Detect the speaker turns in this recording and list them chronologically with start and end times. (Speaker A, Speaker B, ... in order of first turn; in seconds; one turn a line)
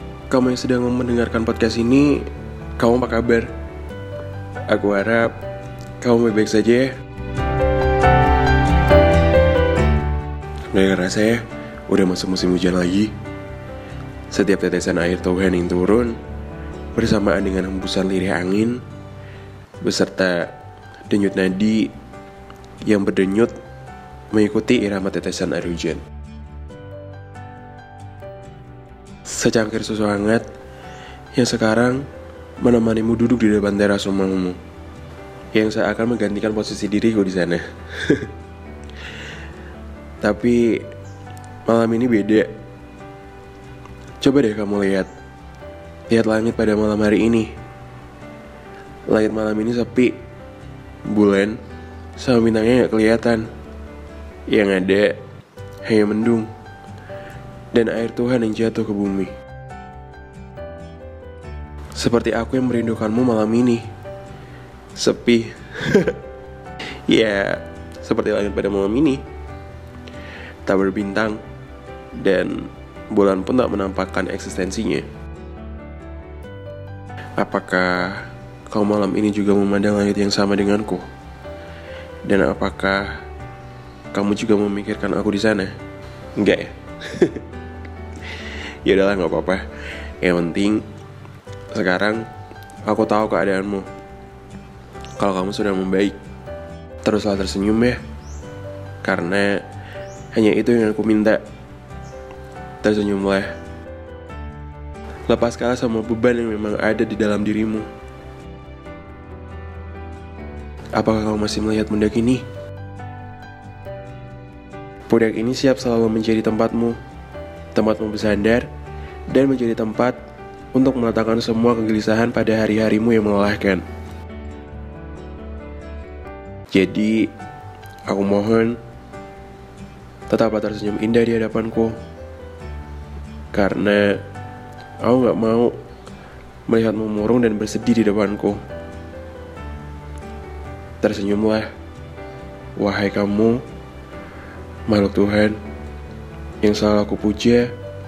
Speaker A: 0.3-3.5
Speaker A: 4.7-5.3
Speaker A: 6.0-7.0
Speaker A: 10.7-13.1
Speaker A: 14.3-16.2
Speaker A: 16.9-18.8
Speaker A: 19.8-20.5
Speaker A: 21.1-21.9
Speaker A: 22.8-23.5
Speaker A: 24.3-26.0
Speaker A: 29.3-30.4
Speaker A: 31.3-32.0
Speaker A: 32.6-34.6
Speaker A: 35.5-38.3
Speaker A: 40.2-40.8
Speaker A: 41.6-42.5
Speaker A: 44.2-45.1
Speaker A: 46.1-47.5
Speaker A: 49.1-50.2
Speaker A: 51.0-51.6
Speaker A: 52.2-53.5
Speaker A: 54.5-55.2
Speaker A: 55.8-56.5
Speaker A: 57.7-59.3
Speaker A: 62.0-63.9
Speaker A: 65.0-66.2
Speaker A: 67.1-69.2
Speaker A: 70.6-71.4
Speaker A: 72.2-75.1
Speaker A: 77.4-81.1
Speaker A: 82.2-83.2
Speaker A: 84.1-85.8
Speaker A: 86.3-87.4
Speaker A: 88.8-89.6
Speaker A: 90.2-90.8
Speaker A: 91.7-92.3
Speaker A: 92.8-93.9
Speaker A: 95.2-96.2
Speaker A: 97.0-98.0
Speaker A: 99.0-99.6
Speaker A: 100.3-101.4
Speaker A: 102.8-103.5
Speaker A: 105.3-107.9
Speaker A: 110.9-112.4
Speaker A: 115.1-117.0
Speaker A: 117.7-118.7
Speaker A: 119.3-120.2
Speaker A: 120.7-123.8
Speaker A: 126.7-127.3
Speaker A: 128.1-128.8
Speaker A: 130.3-132.0
Speaker A: 133.5-134.2
Speaker A: 135.0-135.8
Speaker A: 136.7-138.6
Speaker A: 141.0-141.7
Speaker A: 142.8-143.6
Speaker A: 144.9-145.6
Speaker A: 146.6-147.7